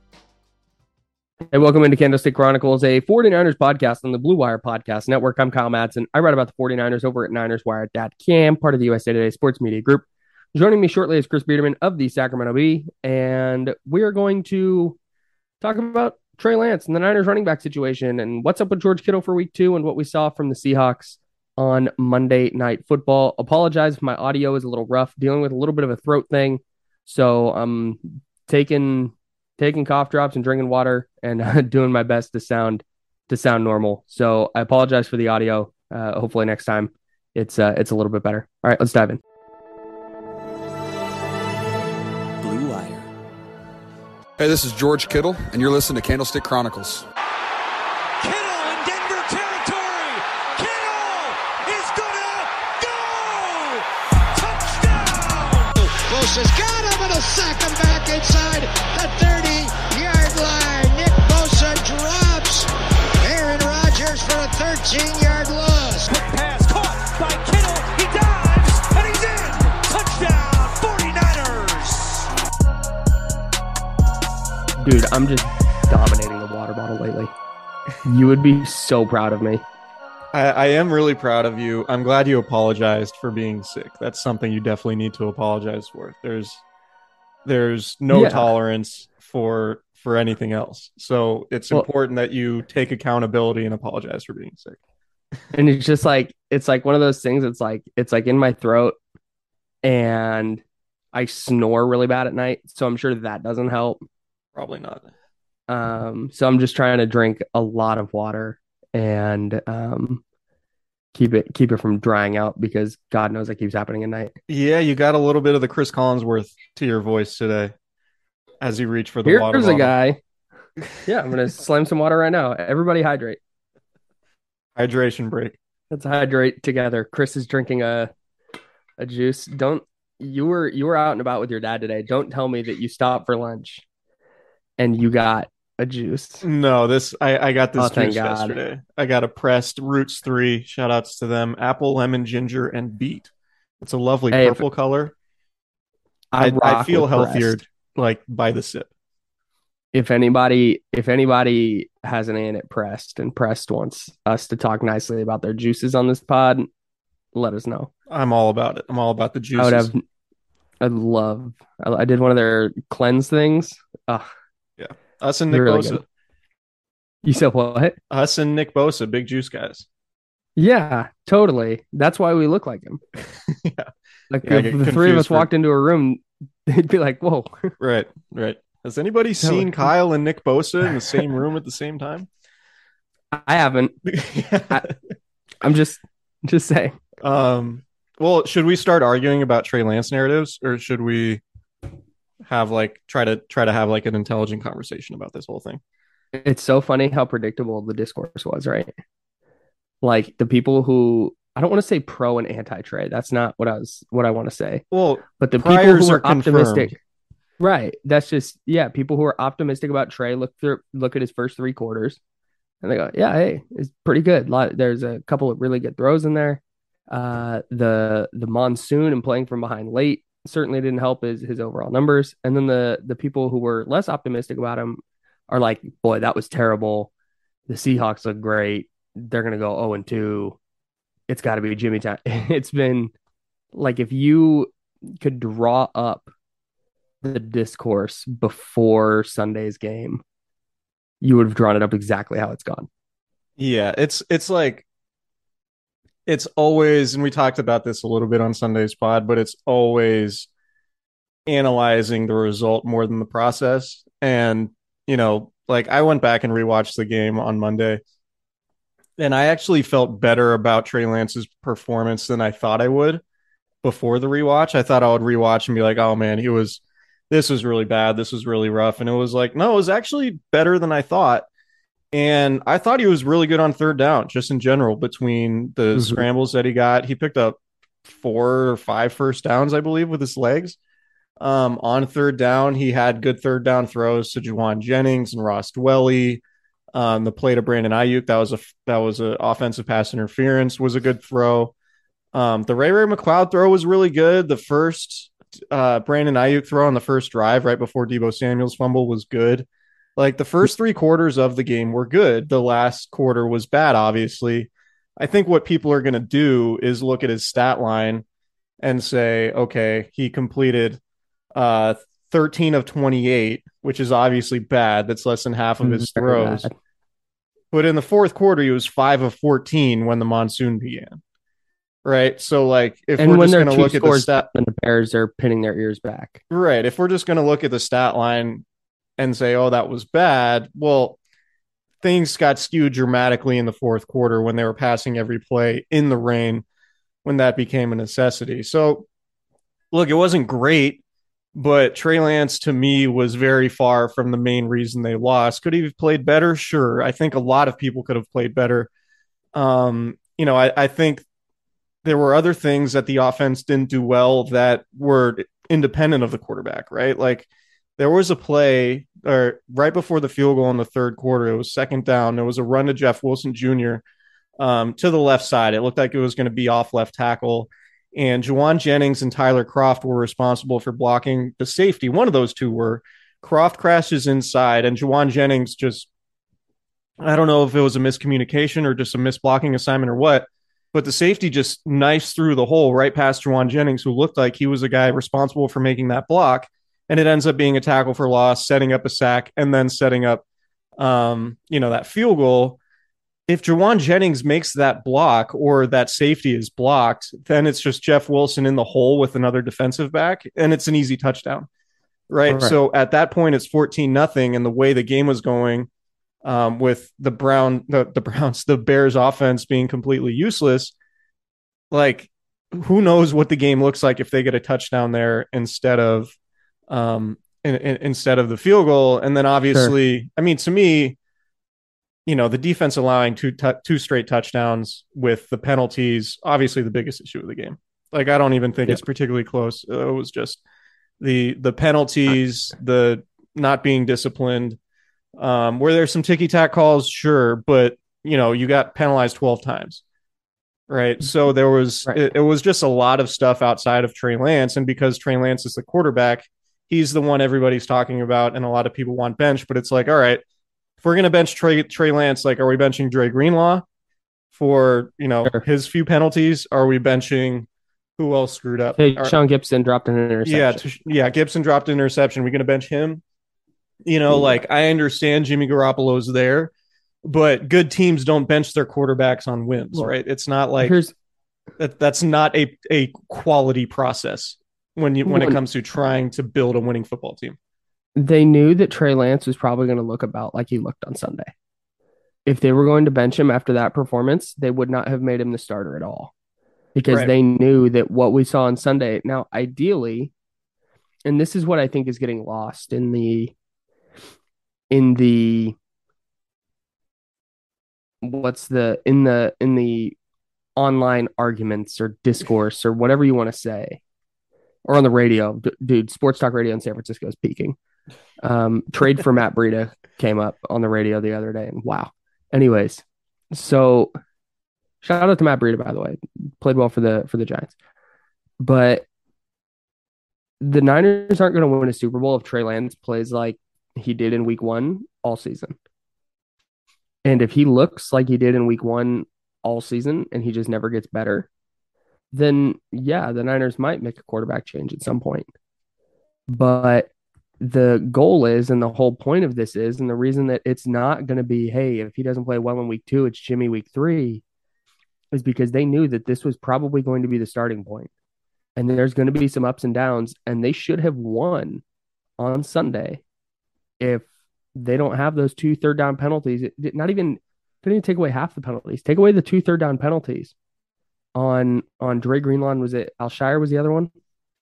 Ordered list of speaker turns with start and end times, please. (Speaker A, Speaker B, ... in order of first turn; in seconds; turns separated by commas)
Speaker A: 1.5-15.0, Speaker A: 15.6-39.2, Speaker B: 42.4-43.1, Speaker B: 44.4-47.1, Speaker C: 48.2-55.7, Speaker D: 55.8-66.1, Speaker C: 66.0-72.3, Speaker A: 74.8-77.3, Speaker A: 78.0-79.6, Speaker E: 80.3-86.6, Speaker E: 87.5-94.8, Speaker A: 88.1-88.5, Speaker A: 95.5-99.0, Speaker A: 99.8-104.0, Speaker E: 104.6-105.1, Speaker A: 105.7-110.2, Speaker A: 111.1-114.3, Speaker E: 114.5-117.7, Speaker E: 118.6-119.9, Speaker A: 119.2-120.2, Speaker A: 121.0-123.4, Speaker E: 124.8-125.6, Speaker A: 125.9-128.1, Speaker A: 129.0-133.8, Speaker A: 134.8-136.4, Speaker E: 136.4-143.3, Speaker A: 137.8-138.6, Speaker E: 143.8-145.1, Speaker A: 144.3-144.6, Speaker A: 146.3-147.6, Speaker E: 146.4-148.9, Speaker A: 149.9-156.7, Speaker A: 157.3-157.9, Speaker E: 158.1-159.9, Speaker A: 159.6-160.0, Speaker A: 160.8-164.3, Speaker E: 164.8-166.0, Speaker A: 165.5-166.0, Speaker A: 167.2-168.0, Speaker E: 168.1-169.9, Speaker A: 170.6-173.0, Speaker E: 173.5-173.9, Speaker A: 174.3-177.7, Speaker E: 174.4-175.5, Speaker E: 177.8-182.3, Speaker A: 179.4-179.9, Speaker A: 183.3-184.0, Speaker E: 184.1-185.0, Speaker A: 185.6-186.9, Speaker E: 187.2-191.4, Speaker E: 192.4-195.8, Speaker A: 196.3-198.9, Speaker A: 200.0-204.8, Speaker E: 204.9-207.0, Speaker A: 205.4-207.0, Speaker A: 207.6-212.2, Speaker A: 212.8-227.1, Speaker A: 227.7-230.6, Speaker A: 231.3-233.1, Speaker A: 233.7-236.3, Speaker A: 237.2-240.2, Speaker A: 241.2-242.9, Speaker E: 243.6-244.8, Speaker E: 246.3-250.5, Speaker E: 251.5-258.0, Speaker E: 259.2-263.2, Speaker E: 263.8-271.5, Speaker E: 272.1-280.8, Speaker A: 275.9-276.2, Speaker E: 281.4-286.4, Speaker E: 286.9-291.7, Speaker E: 292.3-299.7, Speaker E: 300.2-308.2, Speaker E: 308.8-311.0, Speaker E: 311.5-316.7, Speaker A: 315.8-316.7, Speaker E: 317.7-321.2, Speaker E: 322.1-324.5, Speaker A: 323.2-326.4, Speaker E: 326.5-328.6, Speaker E: 329.2-331.2, Speaker E: 332.0-336.6, Speaker E: 337.2-339.1, Speaker E: 339.9-341.0, Speaker E: 341.6-348.9, Speaker E: 349.5-351.2, Speaker E: 352.0-364.0, Speaker E: 364.6-376.1, Speaker E: 377.2-390.4, Speaker E: 391.0-392.8, Speaker E: 393.5-401.7, Speaker E: 402.3-405.9, Speaker A: 402.5-402.8, Speaker E: 406.4-410.9, Speaker E: 411.9-416.4, Speaker E: 416.9-421.2, Speaker E: 422.3-430.6, Speaker E: 431.2-434.8, Speaker E: 435.4-440.0, Speaker E: 440.9-450.4, Speaker E: 451.0-453.8, Speaker E: 454.5-457.7, Speaker E: 458.2-459.4, Speaker A: 459.0-460.8, Speaker E: 460.5-463.2, Speaker E: 464.1-466.7, Speaker E: 467.2-471.0, Speaker A: 470.8-471.1, Speaker E: 471.8-477.6, Speaker A: 475.3-475.6, Speaker A: 478.2-481.5, Speaker A: 482.5-486.3, Speaker A: 486.9-490.3, Speaker A: 491.3-493.5, Speaker A: 494.9-495.8, Speaker A: 498.2-500.2, Speaker A: 500.8-504.0, Speaker A: 504.9-507.8, Speaker A: 508.4-514.1, Speaker A: 515.0-517.7, Speaker A: 518.6-519.0, Speaker A: 520.6-525.8, Speaker A: 527.2-531.5, Speaker A: 532.3-535.5, Speaker A: 536.5-544.4, Speaker A: 545.3-548.1, Speaker A: 548.8-551.8, Speaker A: 552.4-553.2, Speaker A: 554.0-560.5, Speaker A: 561.4-564.1